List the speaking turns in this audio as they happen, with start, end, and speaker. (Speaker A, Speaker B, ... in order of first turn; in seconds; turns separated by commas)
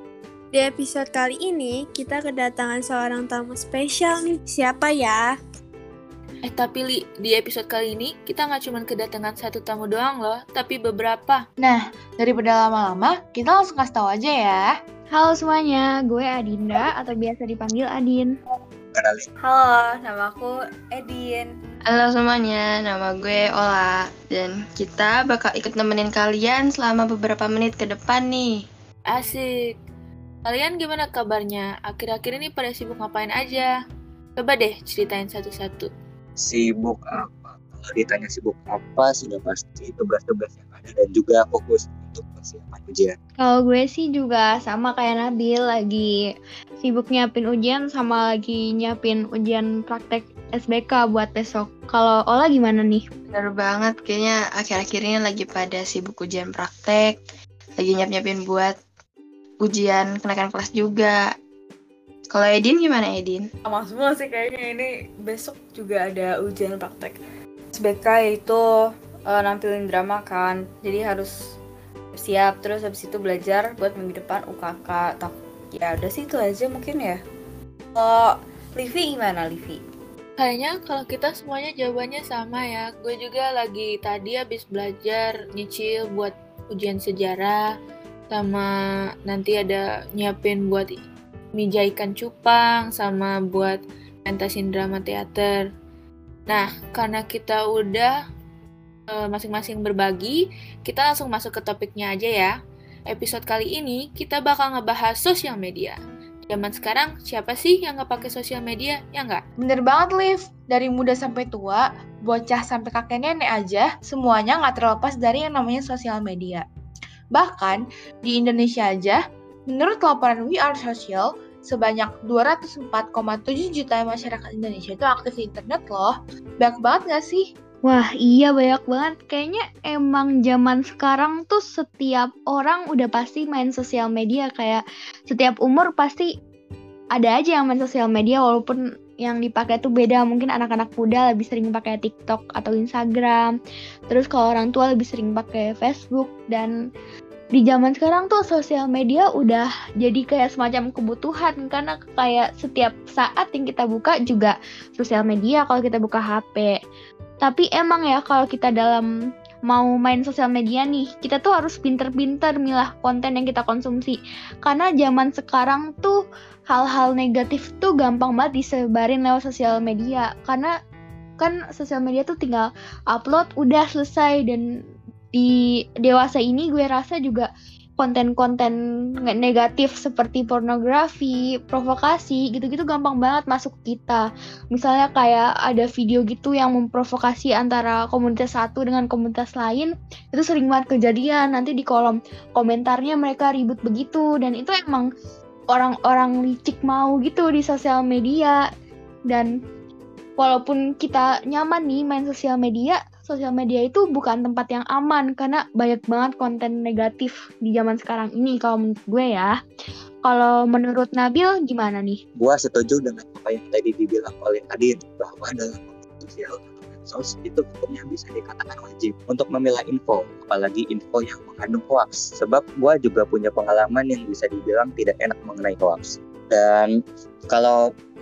Speaker A: 0.5-5.3, Speaker B: 6.4-11.4, Speaker C: 11.6-14.6, Speaker D: 15.1-18.3, Speaker E: 18.9-19.3, Speaker F: 19.4-21.5, Speaker G: 21.9-28.6, Speaker B: 29.1-29.7, Speaker B: 30.4-33.7, Speaker B: 34.4-35.9, Speaker E: 36.4-43.2, Speaker D: 43.4-46.1, Speaker D: 46.8-53.0, Speaker G: 53.3-57.2, Speaker G: 57.8-58.7, Speaker G: 59.6-61.1, Speaker G: 62.3-63.4, Speaker F: 63.6-67.2, Speaker F: 67.7-68.6, Speaker F: 69.2-71.5, Speaker F: 72.1-77.2, Speaker F: 77.9-79.8, Speaker B: 80.4-87.6, Speaker B: 88.3-88.7, Speaker B: 89.3-90.9, Speaker B: 91.6-95.6, Speaker B: 96.5-98.1, Speaker B: 99.1-102.5, Speaker B: 103.1-106.0, Speaker B: 106.5-109.4, Speaker C: 109.6-116.6, Speaker C: 117.3-117.8, Speaker C: 118.3-119.2, Speaker C: 119.7-127.4, Speaker D: 127.8-136.3, Speaker D: 137.2-143.5, Speaker D: 144.1-146.7, Speaker D: 147.5-156.7, Speaker D: 157.4-159.1, Speaker D: 159.7-166.2, Speaker D: 166.7-170.7, Speaker D: 171.4-174.6, Speaker D: 176.0-195.1, Speaker D: 195.7-198.6, Speaker D: 200.4-209.5, Speaker D: 210.2-212.2, Speaker E: 212.3-226.9, Speaker E: 227.5-227.8